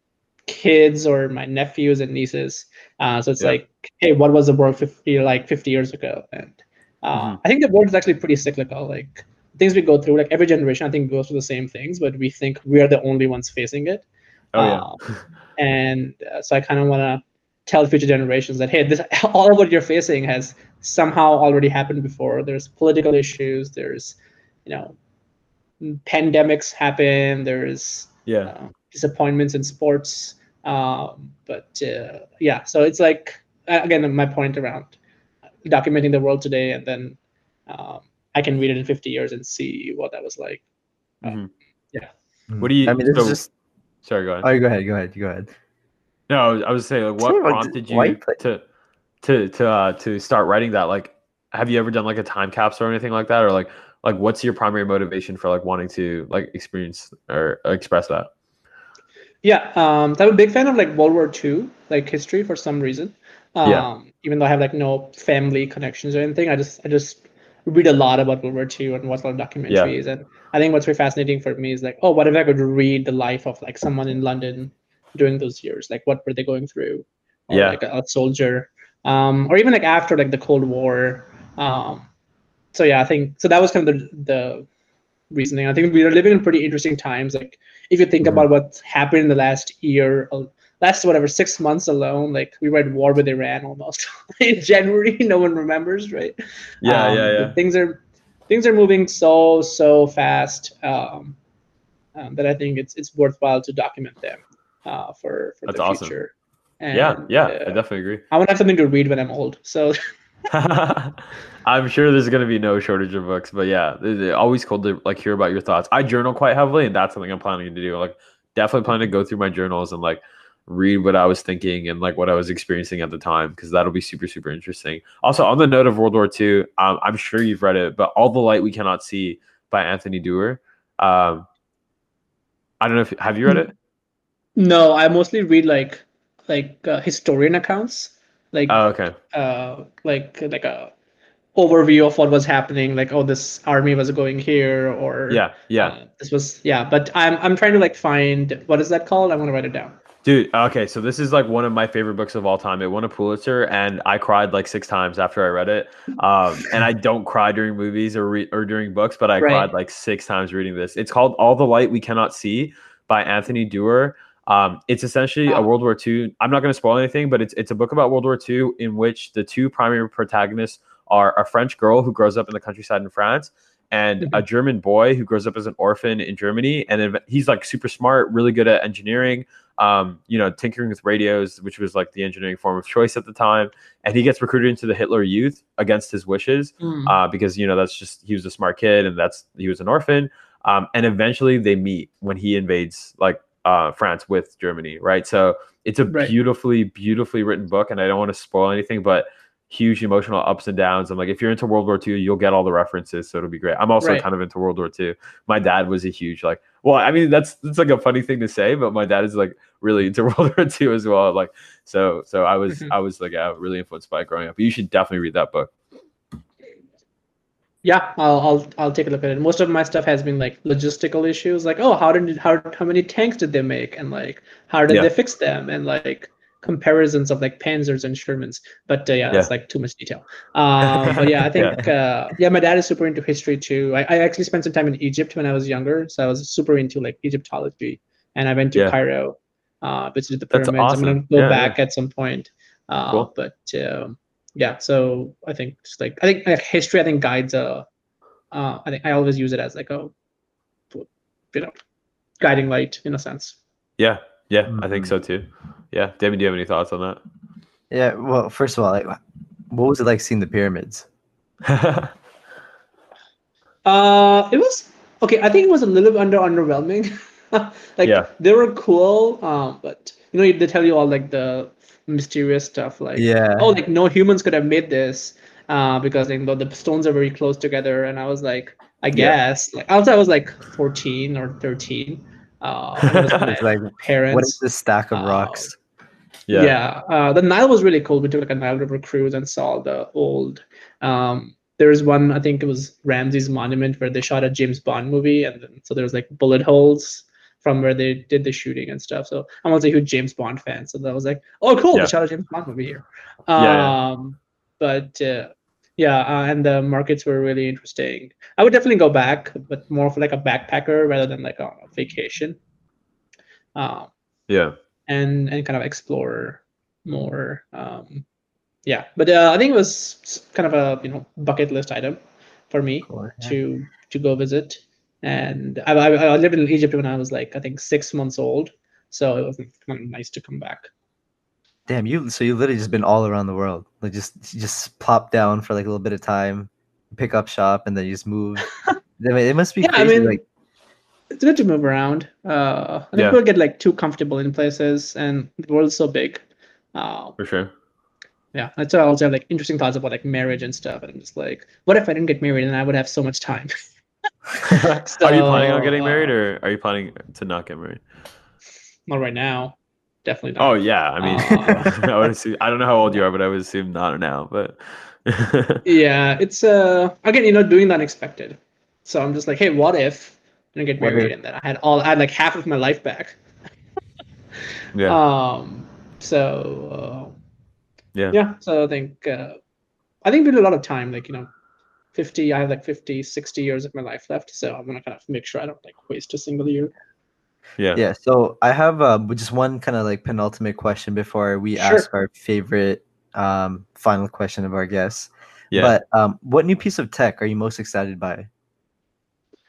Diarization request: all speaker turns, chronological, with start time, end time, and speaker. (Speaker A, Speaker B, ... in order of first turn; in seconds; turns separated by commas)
Speaker A: 0.5-14.0, Speaker B: 7.1-7.4, Speaker B: 14.5-15.2, Speaker A: 14.6-15.0, Speaker A: 15.6-24.9, Speaker A: 25.8-35.0, Speaker B: 28.3-28.5, Speaker A: 35.6-37.2, Speaker A: 37.7-40.6, Speaker B: 41.2-41.5, Speaker C: 42.5-43.5, Speaker B: 42.6-43.4, Speaker B: 44.0-44.5, Speaker C: 44.4-45.5, Speaker B: 46.3-48.6, Speaker C: 47.2-48.4, Speaker B: 49.2-58.3, Speaker A: 59.4-82.1, Speaker B: 69.7-69.9, Speaker B: 77.5-77.8, Speaker A: 82.7-84.7, Speaker A: 85.3-101.3, Speaker B: 96.8-97.5, Speaker A: 102.1-110.0, Speaker B: 105.7-106.1, Speaker B: 106.9-108.2, Speaker B: 110.5-131.4, Speaker B: 132.8-133.7, Speaker A: 134.6-138.8, Speaker B: 138.7-139.1, Speaker A: 139.3-140.9, Speaker A: 141.5-149.9, Speaker B: 145.3-145.9, Speaker B: 150.2-215.7, Speaker A: 159.4-159.7, Speaker A: 186.8-187.2, Speaker A: 217.8-247.8, Speaker B: 230.8-231.8, Speaker B: 240.5-241.8, Speaker A: 248.5-250.1, Speaker A: 250.9-251.7, Speaker A: 252.4-253.6, Speaker B: 254.0-257.2, Speaker C: 254.7-255.1, Speaker C: 257.9-259.2, Speaker C: 259.7-261.1, Speaker B: 261.6-262.1, Speaker A: 263.8-284.6, Speaker C: 273.1-273.8, Speaker B: 283.0-283.4, Speaker C: 283.5-285.8, Speaker A: 285.1-285.7, Speaker B: 286.5-286.8, Speaker A: 286.5-312.6, Speaker B: 303.6-303.9, Speaker A: 313.7-314.1, Speaker B: 314.5-314.7, Speaker A: 315.1-318.2, Speaker A: 318.9-322.2, Speaker A: 322.7-330.9, Speaker C: 323.1-323.6, Speaker C: 331.9-338.7, Speaker C: 339.2-340.4, Speaker A: 339.8-340.4, Speaker A: 341.3-346.4, Speaker A: 346.9-347.4, Speaker B: 347.4-347.7, Speaker A: 348.5-353.7, Speaker B: 354.6-358.0, Speaker A: 354.7-356.3, Speaker A: 359.1-362.0, Speaker B: 360.6-365.8, Speaker A: 365.8-373.4, Speaker C: 371.0-371.3, Speaker B: 374.9-375.2, Speaker A: 375.1-377.3, Speaker A: 378.3-379.6, Speaker A: 380.2-381.5, Speaker A: 382.1-386.9, Speaker C: 387.9-398.5, Speaker A: 391.8-392.1